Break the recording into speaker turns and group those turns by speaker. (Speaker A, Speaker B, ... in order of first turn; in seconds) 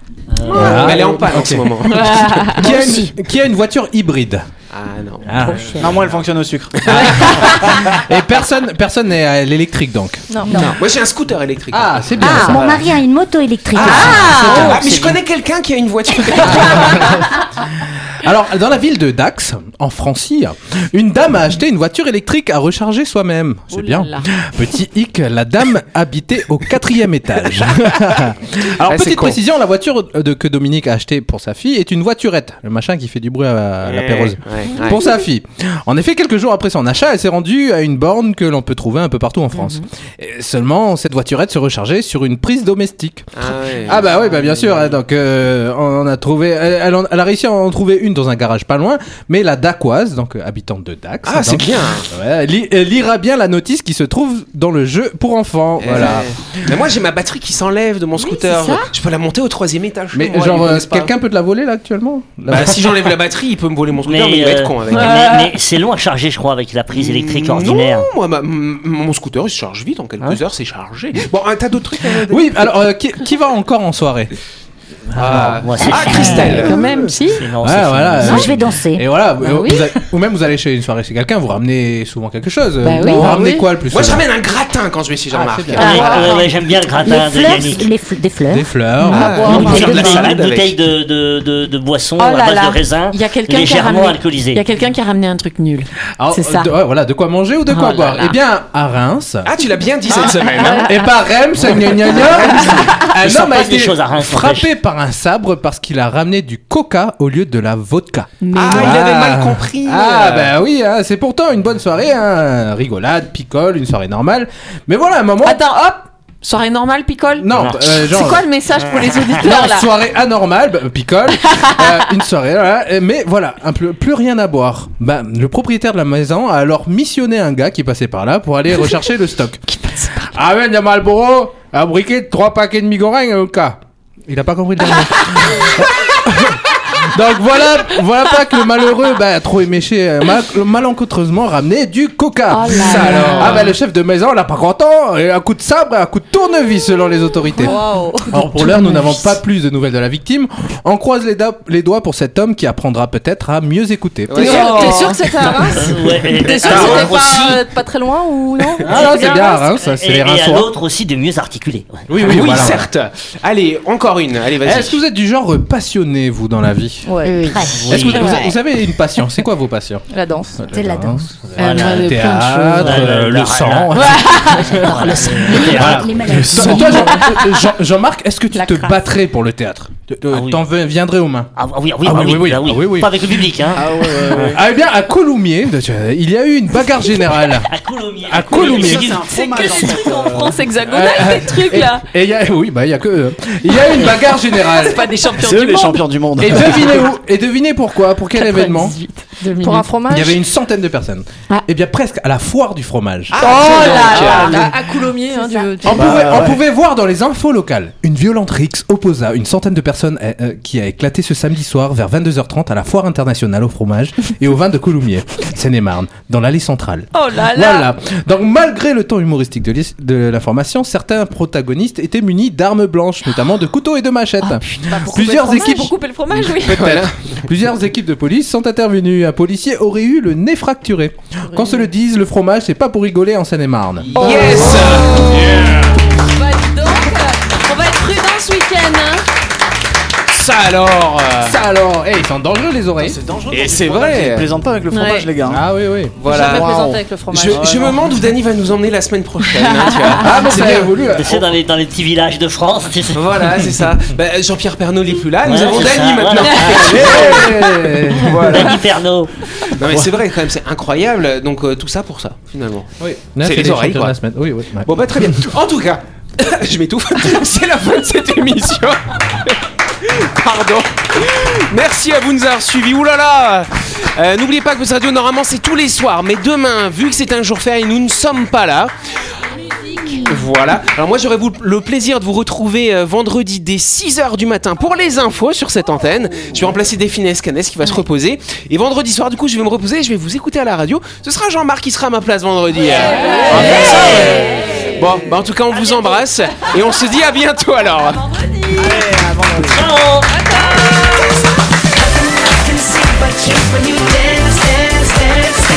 Speaker A: 0.3-0.8, 5.5-6.2, 64.1-68.1, 75.6-76.7, 77.4-78.6, 85.8-87.9, 89.4-94.6, 103.2-104.7, 117.5-117.9, 155.6-157.6, 158.8-162.7, 167.7-168.4, 172.8-176.2, 180.3-180.6, 181.6-184.6, 187.6-190.3, 251.1-253.6, 255.4-257.2, 258.4-259.3, 295.7-296.2, 299.6-300.3
Speaker B: 0.5-4.5, 5.2-6.0, 6.8-10.2, 11.7-12.8, 13.8-15.2, 16.4-17.3, 17.9-43.3, 43.9-56.8, 60.1-63.1, 72.3-74.3, 75.1-77.1, 77.6-84.2, 85.3-86.2, 88.5-90.3, 96.2-99.5, 100.8-115.6, 117.4-118.4, 119.4-129.6, 130.3-147.8, 148.3-155.2, 156.8-157.1, 158.8-160.7, 162.1-162.9, 164.6-167.1, 167.8-170.0, 170.6-181.5, 182.0-183.8, 184.3-187.7, 188.3-189.1, 190.8-195.1, 196.4-199.0, 200.1-203.6, 205.9-225.9, 226.5-234.1, 241.4-243.2, 245.5-246.2, 250.2-251.4, 256.9-258.4, 259.9-260.1, 263.0-265.4
Speaker C: 0.5-2.8, 4.7-5.8, 6.9-7.3, 10.5-12.9, 13.7-17.1, 28.9-29.4, 33.8-35.1, 43.4-44.8, 51.2-52.1, 55.8-61.1, 62.5-65.5, 66.9-72.7, 75.1-76.8, 83.9-86.4, 89.1-90.7, 99.5-100.9, 108.6-110.5, 154.3-155.0, 156.6-157.1, 162.2-165.0, 203.3-204.7, 226.6-227.4, 234.1-235.6, 240.3-241.6, 243.5-244.5, 246.2-250.9, 253.1-258.9, 259.6-264.1, 264.9-278.9, 280.3-298.2
Speaker D: 0.5-0.8, 2.2-2.6, 10.5-10.8, 12.2-12.5, 13.8-14.8, 16.6-16.9, 23.7-24.2, 39.5-39.9, 58.2-58.9, 64.9-65.3, 76.2-77.5, 79.4-79.9, 82.8-83.4, 85.7-86.5, 89.0-90.3, 92.2-96.7, 97.7-98.4, 100.4-100.9, 108.4-109.0, 115.4-119.9, 121.5-121.9, 128.7-129.0, 129.7-130.3, 142.5-143.7, 148.4-149.2, 154.4-155.2, 167.2-167.7, 171.6-173.1, 174.0-174.5, 176.6-177.4, 178.5-178.9, 198.4-199.9, 203.7-206.1, 217.2-217.8, 224.4-226.7, 234.2-234.9, 237.7-239.1, 244.9-245.3, 250.5-250.8, 280.0-280.3, 293.4-293.7
Speaker E: 2.6-3.1, 12.4-14.4, 78.2-79.0, 87.1-88.7, 167.4-168.5, 170.7-171.2, 175.2-177.2
Speaker F: 5.8-7.0, 102.0-102.9, 183.8-184.6, 188.5-190.6, 195.4-197.0, 205.9-206.6, 242.9-245.6, 247.5-248.0, 298.8-299.9
Speaker G: 10.3-10.7, 83.1-83.6, 85.8-86.3, 143.2-143.6, 147.6-148.4, 154.3-159.8, 167.1-167.5, 170.1-170.6, 174.0-174.5, 189.2-192.1, 193.7-197.1, 198.3-200.4, 203.4-206.4, 217.2-217.9, 225.1-226.6, 231.5-231.9, 234.2-235.5, 236.4-239.2, 246.2-248.1, 249.6-250.9, 256.4-256.8, 279.9-280.2, 292.9-294.8, 300.4-301.1